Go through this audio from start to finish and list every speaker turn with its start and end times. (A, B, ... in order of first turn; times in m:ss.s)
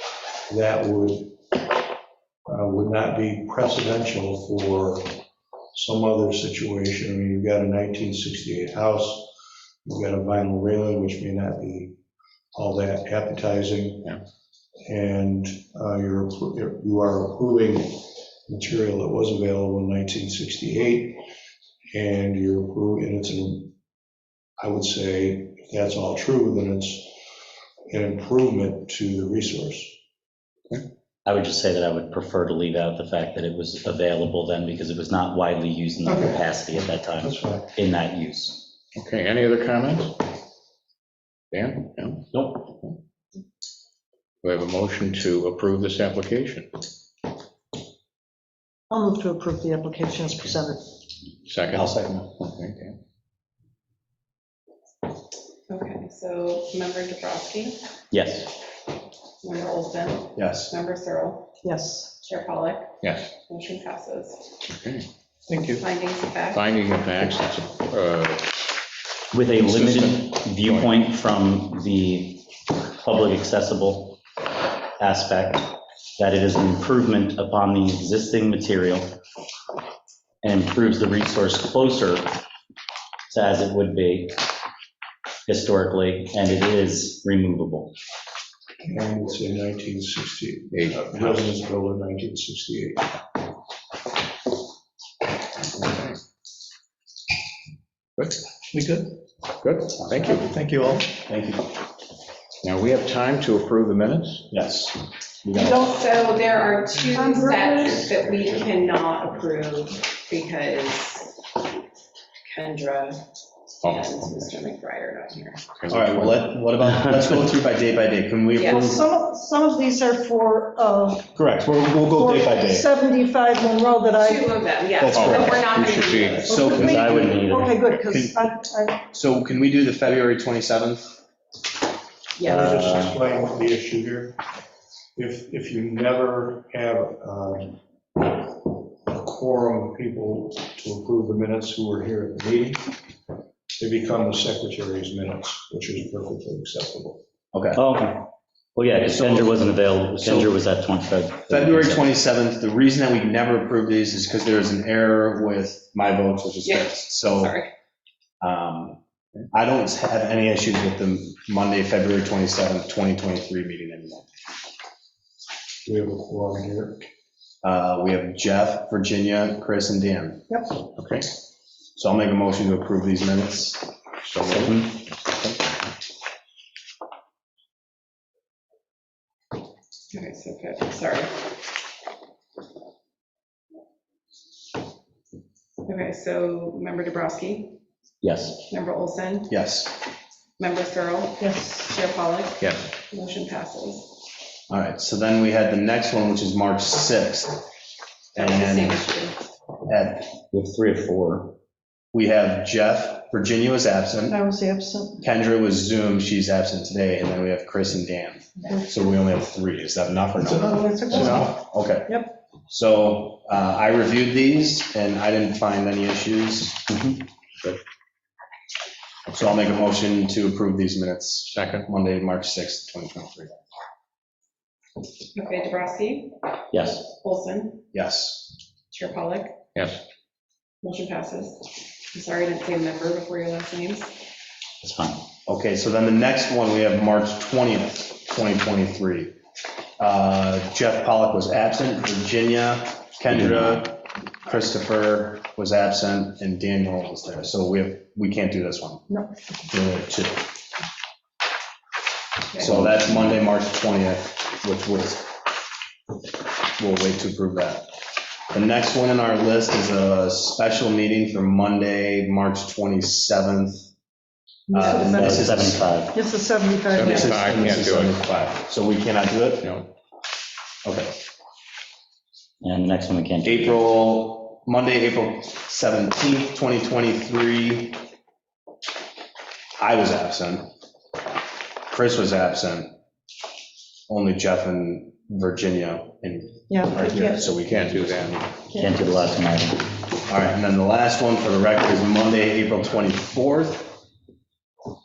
0:00.5-0:01.4 A
0:02.5-0:05.2 A
0:05.7-0:09.3 A
0:09.8-0:12.0 A
0:12.5-0:14.1 A
0:14.8-0:21.2 A
0:21.9-0:23.7 A
0:24.6-0:27.2 A
0:27.9-0:30.0 A
0:31.2-0:38.7 B
0:36.0-0:37.7 A
0:38.9-0:40.2 C
0:41.5-0:43.0 C
0:44.4-0:46.7 C
0:48.9-0:50.8 D
0:51.5-0:52.9 C
0:51.7-0:52.3 E
0:55.7-0:57.8 F
0:58.1-0:58.5 B
0:59.4-1:01.5 F
1:00.4-1:00.7 E
1:01.6-1:02.1 D
1:02.2-1:02.9 F
1:03.0-1:03.3 C
1:03.4-1:04.4 F
1:04.7-1:05.8 C
1:05.8-1:06.6 F
1:06.5-1:08.5 C
1:09.3-1:14.2 B
1:09.5-1:10.9 C
1:15.0-1:19.2 B
1:20.4-1:22.3 B
1:23.3-1:24.3 B
1:25.5-1:27.9 B
1:28.8-1:33.1 A
1:30.7-1:31.5 C
1:35.7-1:36.2 C
1:38.2-1:38.4 C
1:38.7-1:39.1 A
1:39.6-1:40.5 C
1:39.9-1:41.7 E
1:42.6-1:44.4 C
1:44.5-1:45.8 E
1:45.6-1:51.4 F
1:47.2-1:47.9 D
1:52.5-1:53.2 F
1:53.8-1:54.2 C
1:53.8-1:55.6 F
1:55.7-1:56.5 C
1:55.9-1:59.0 E
1:58.6-1:59.0 F
1:58.9-2:01.2 D
2:01.3-2:02.9 E
2:02.2-2:04.4 D
2:04.2-2:06.8 F
2:05.0-2:05.6 E
2:05.1-2:06.9 C
2:06.4-2:08.5 E
2:06.6-2:09.0 D
2:06.8-2:07.8 B
2:09.0-2:11.1 E
2:12.4-2:12.6 F
2:12.4-2:13.2 B
2:12.4-2:14.4 A
2:15.2-2:23.0 A
2:23.8-2:27.2 A
2:27.5-2:27.8 E
2:27.7-2:32.1 B
2:29.1-2:30.6 E
2:31.5-2:37.6 E
2:36.6-2:37.7 F
2:38.4-2:39.0 E
2:39.5-2:44.3 E
2:45.8-2:47.1 A
2:47.6-2:50.6 E
2:50.9-2:51.3 C
2:51.9-2:53.9 E
2:54.3-2:55.7 C
2:54.4-2:54.7 E
3:00.1-3:01.3 F
3:05.8-3:07.8 F
3:08.2-3:08.6 B
3:08.7-3:09.5 F
3:09.5-3:10.0 E
3:10.6-3:14.1 F
3:11.4-3:11.8 D
3:14.7-3:17.6 E
3:18.3-3:19.4 F
3:18.3-3:19.0 E
3:19.9-3:20.4 E
3:20.5-3:21.6 B
3:22.1-3:24.4 E
3:24.3-3:25.2 D
3:25.2-3:36.9 E
3:30.7-3:31.4 D
3:31.1-3:31.5 C
3:36.9-3:37.8 B
3:39.3-3:43.5 E
3:41.5-3:41.9 C
3:45.3-3:46.4 F
3:46.7-3:47.1 B
3:47.0-3:47.8 F
3:47.9-3:48.5 E
3:48.9-3:49.6 F
3:49.7-3:50.0 C
3:50.8-3:54.2 F
3:54.8-3:55.2 B
3:55.4-3:59.3 E
4:00.0-4:09.1 E
4:03.3-4:03.8 B
4:09.7-4:10.4 E
4:12.6-4:15.3 E
4:16.8-4:17.9 E
4:18.5-4:23.9 E
4:24.7-4:25.5 D
4:24.7-4:25.9 E
4:25.0-4:26.2 B
4:26.1-4:27.0 D
4:26.9-4:28.2 C
4:27.0-4:29.7 E
4:27.0-4:27.3 F
4:30.8-4:31.2 E
4:32.6-4:33.8 B
4:33.4-4:38.0 E
4:39.8-4:40.7 E
4:41.9-4:42.9 E
4:44.1-4:47.8 E
4:46.7-4:47.4 D
4:47.2-4:48.7 C
4:48.7-4:49.0 D
4:48.8-4:49.9 B
4:50.3-4:54.0 E